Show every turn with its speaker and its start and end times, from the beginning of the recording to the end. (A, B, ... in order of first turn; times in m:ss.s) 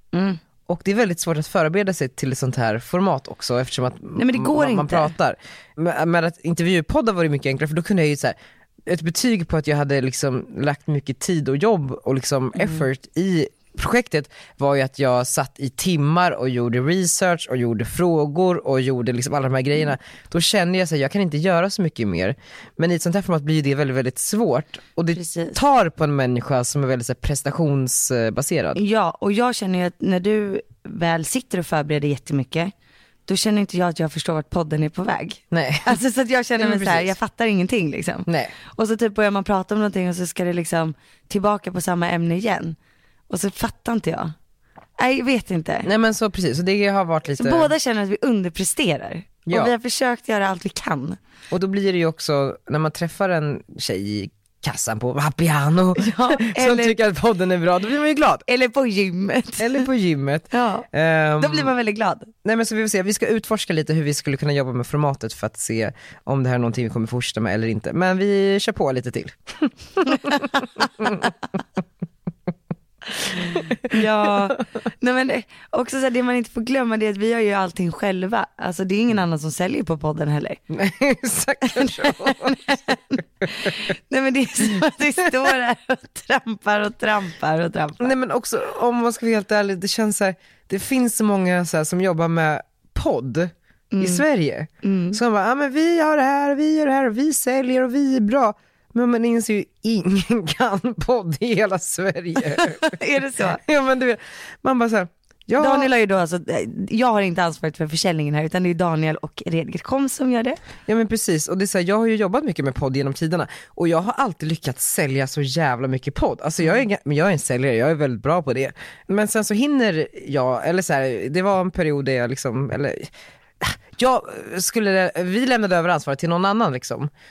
0:00.1-0:00.4 A
0:00.7-0:28.8 B
0:04.2-0:05.2 A
0:25.1-0:25.6 A
0:28.8-0:32.7 A
0:33.3-0:42.8 A
0:35.5-0:36.0 B
0:36.6-0:37.1 B
0:38.3-0:38.5 B
0:43.3-0:44.3 A
0:45.0-0:45.9 A
0:45.8-0:47.7 B
0:47.4-0:51.2 A
0:49.5-0:49.7 B
0:51.5-0:58.5 B
0:56.0-0:57.0 A
0:58.5-0:59.9 A
0:59.6-1:01.7 B
1:00.5-1:00.9 A
1:01.4-1:02.3 A
1:02.4-1:11.3 B
1:10.1-1:10.9 A
1:13.2-1:20.6 A
1:13.5-1:14.5 B
1:20.7-1:23.0 B
1:21.6-1:28.2 A
1:28.0-1:45.9 B
1:33.9-1:34.2 A
1:34.8-1:35.2 A
1:42.4-1:43.6 A
1:45.6-1:50.6 A
1:50.9-2:07.1 B